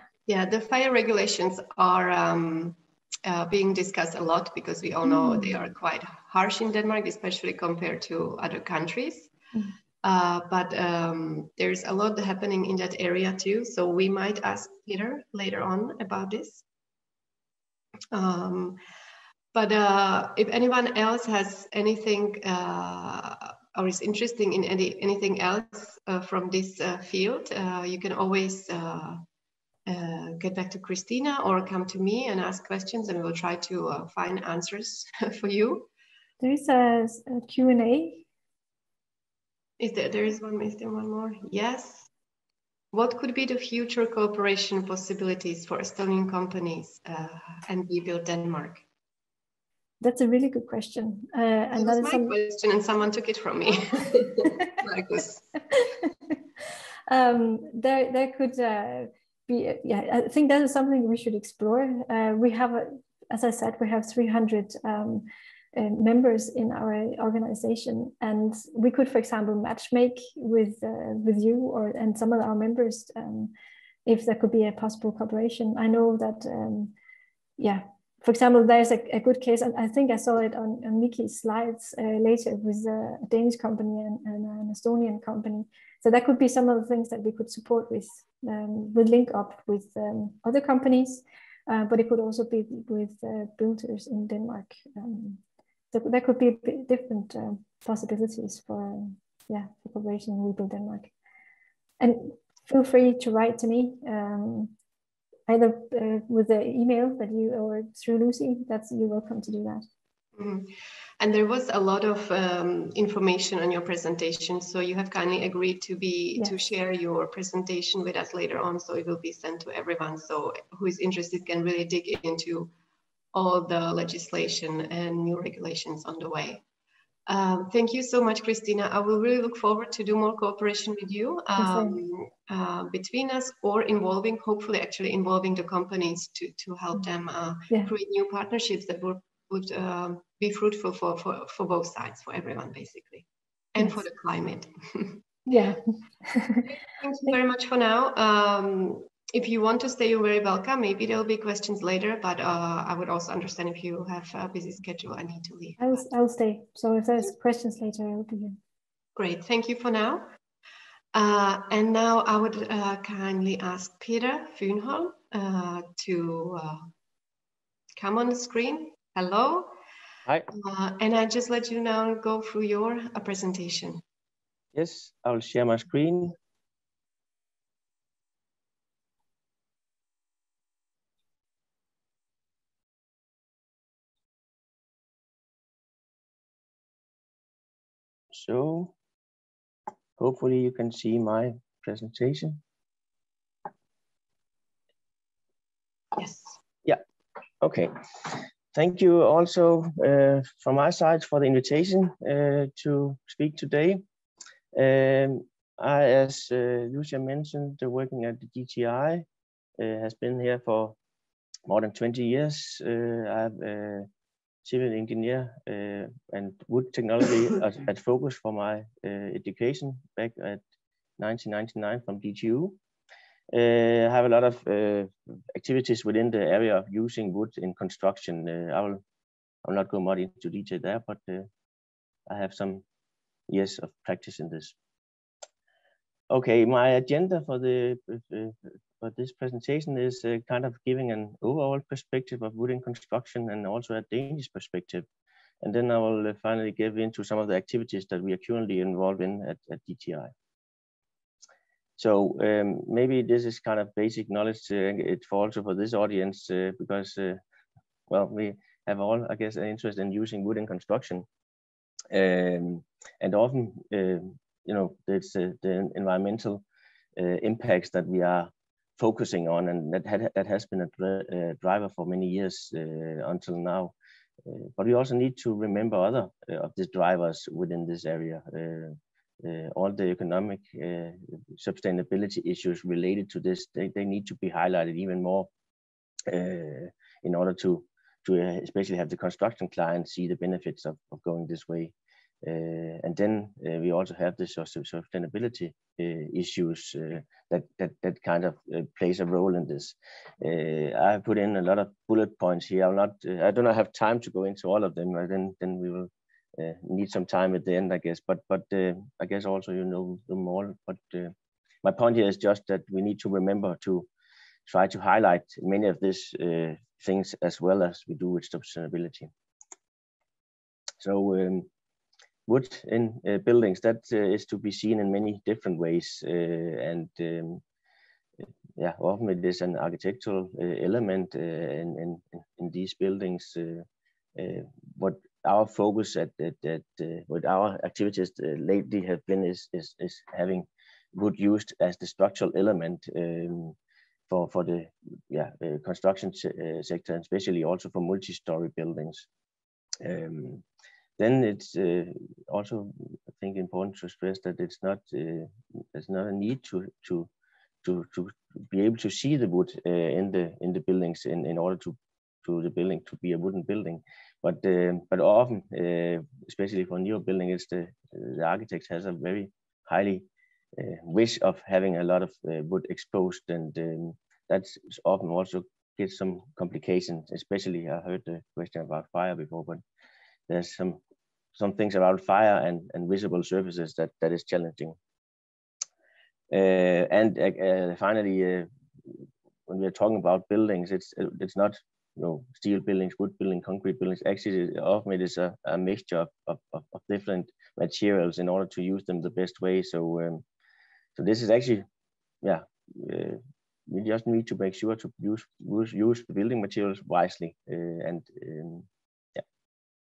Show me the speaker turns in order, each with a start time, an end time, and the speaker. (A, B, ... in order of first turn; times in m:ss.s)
0:00.3-0:09.3 A
0:05.0-0:05.6 B
0:10.0-0:16.6 A
0:18.1-0:18.8 A
0:19.5-0:29.2 A
0:29.9-0:35.9 A
0:36.4-0:38.2 B
0:39.8-0:42.1 A
0:42.9-0:48.8 A
0:50.0-0:52.3 B
0:51.7-0:55.5 A
0:57.1-1:13.5 B
1:14.0-1:16.9 B
1:17.6-1:35.4 B
1:35.9-1:41.1 B
1:42.0-1:44.7 B
1:45.5-1:49.8 B
1:50.4-2:02.7 A
2:03.3-2:06.6 A
2:07.3-2:25.2 A
2:11.6-2:12.0 B
2:25.5-2:26.7 B
2:26.7-2:36.0 A
2:35.8-2:38.6 B
2:39.2-2:40.3 A
2:41.1-2:46.9 A
2:48.0-2:49.8 A
2:50.5-2:54.0 A
2:54.7-2:56.4 C
3:08.3-3:08.9 C
3:10.2-3:12.6 C
3:16.1-3:16.6 A
3:17.6-3:24.0 C
3:24.7-3:29.2 C
3:29.8-3:31.0 C
3:31.7-3:34.1 C
3:34.6-3:40.6 C
3:41.2-3:42.8 C
3:43.5-3:49.0 C
3:49.6-3:51.5 C
3:52.3-3:52.8 C
3:53.5-3:54.8 C
3:56.3-4:05.0 C
4:05.6-4:10.3 C
4:12.0-4:17.4 C
4:18.1-4:21.2 C
4:22.1-4:26.6 C
4:27.2-4:33.9 C
4:34.4-4:45.5 C
4:46.3-5:11.3 C
5:11.8-5:14.1 C
5:14.6-5:19.3 C
5:21.0-5:21.7 C
5:22.5-5:27.6 C
5:28.8-5:43.8 C
5:44.3-5:49.3 C
5:50.0-5:50.6 C
5:51.2-5:57.3 C
5:57.8-6:19.8 C
6:20.5-6:21.0 C
6:21.6-6:25.0 C
6:26.5-6:28.7 C
6:29.7-6:40.4 C
6:41.2-6:41.8 C
6:42.4-6:49.4 C